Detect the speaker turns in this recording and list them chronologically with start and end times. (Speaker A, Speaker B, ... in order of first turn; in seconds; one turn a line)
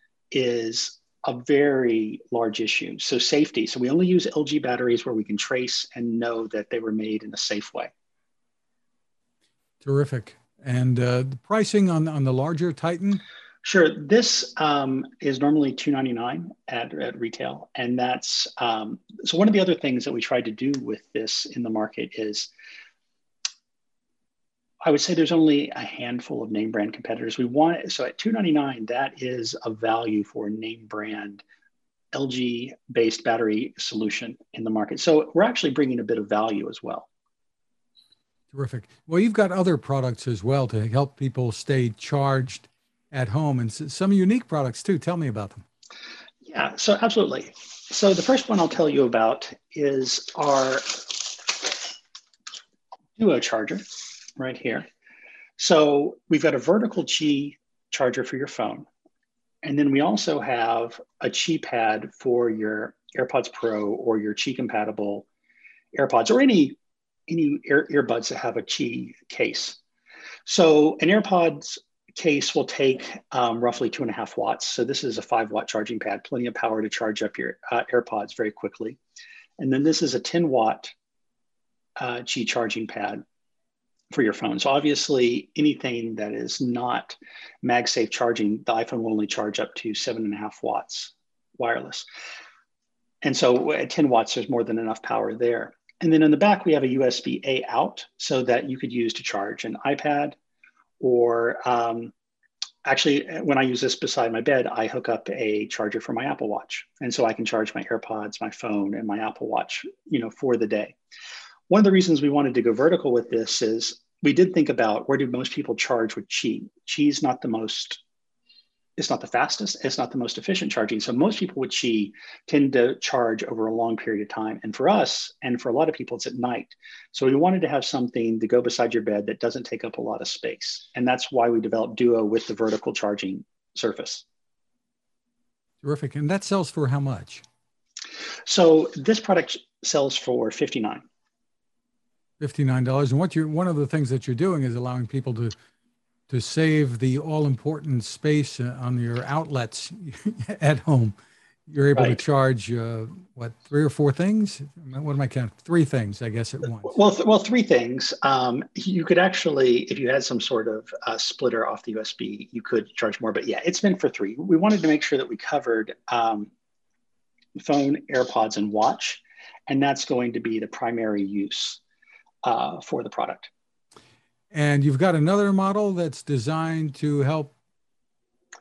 Speaker A: 0.3-7.9
Speaker B: 9.8-13.2
Speaker A: 13.6-22.5
Speaker A: 24.8-31.4
Speaker A: 32.1-37.1
Speaker B: 38.5-45.6
Speaker A: 46.4-51.9
Speaker A: 53.2-53.8
Speaker A: 54.4-54.9
Speaker A: 55.6-58.9
Speaker A: 59.6-65.3
Speaker A: 65.9-66.8
Speaker A: 67.3-69.8
Speaker A: 70.5-79.0
Speaker A: 79.6-80.9
Speaker A: 82.0-83.2
Speaker A: 84.1-92.0
Speaker A: 93.2-100.3
Speaker A: 101.0-102.1
Speaker A: 102.8-111.0
Speaker A: 111.7-118.0
Speaker A: 119.0-134.2
Speaker B: 135.8-137.4
Speaker A: 138.5-141.0
Speaker B: 142.4-145.5
Speaker B: 146.3-151.1
Speaker B: 151.7-156.9
Speaker A: 151.9-152.2
Speaker A: 156.8-166.5
Speaker A: 167.6-171.8
Speaker A: 172.4-173.5
Speaker B: 174.5-177.5